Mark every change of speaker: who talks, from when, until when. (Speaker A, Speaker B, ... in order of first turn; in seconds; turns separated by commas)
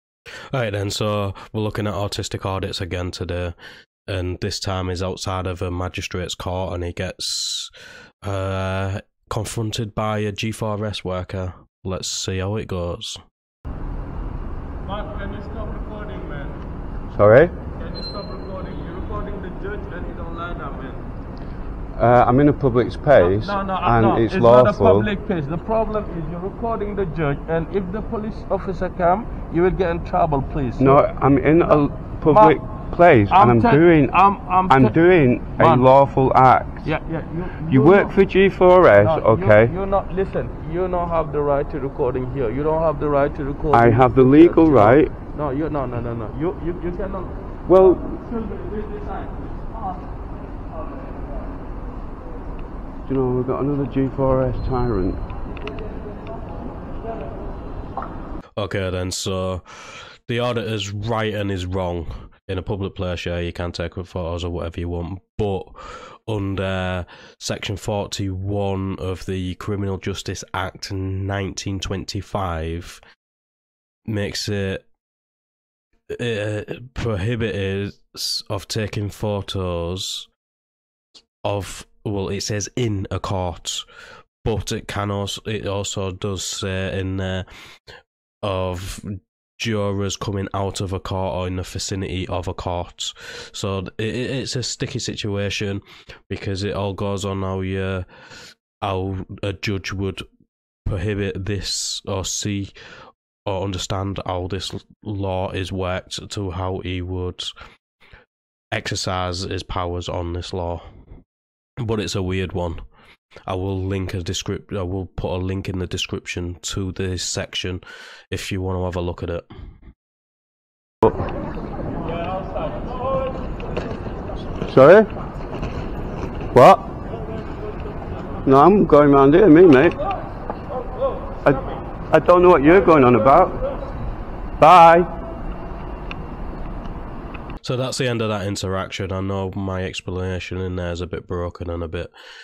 Speaker A: 0.5-3.5, Speaker A: 4.1-7.7, Speaker A: 8.2-13.2, Speaker B: 14.8-16.6, Speaker C: 17.1-17.5, Speaker B: 17.8-21.0, Speaker C: 21.9-25.1, Speaker B: 23.2-31.1, Speaker C: 30.8-36.9, Speaker B: 31.6-32.6, Speaker B: 33.3-34.9, Speaker B: 35.6-35.9, Speaker B: 36.8-38.1, Speaker C: 37.6-39.7, Speaker B: 39.0-49.6, Speaker C: 43.7-45.1, Speaker C: 47.7-48.2, Speaker C: 53.0-55.2, Speaker A: 58.6-73.0, Speaker A: 74.1-74.8, Speaker A: 76.1-80.3, Speaker A: 81.4-83.8, Speaker A: 84.4-87.5, Speaker A: 88.4-100.2, Speaker A: 100.8-102.7, Speaker A: 103.5-107.5, Speaker A: 108.7-110.8, Speaker A: 111.8-112.8, Speaker A: 113.5-119.5, Speaker C: 124.6-125.1, Speaker C: 126.5-126.9, Speaker C: 128.4-130.0, Speaker C: 131.4-133.6, Speaker C: 134.6-135.1, Speaker A: 137.6-142.1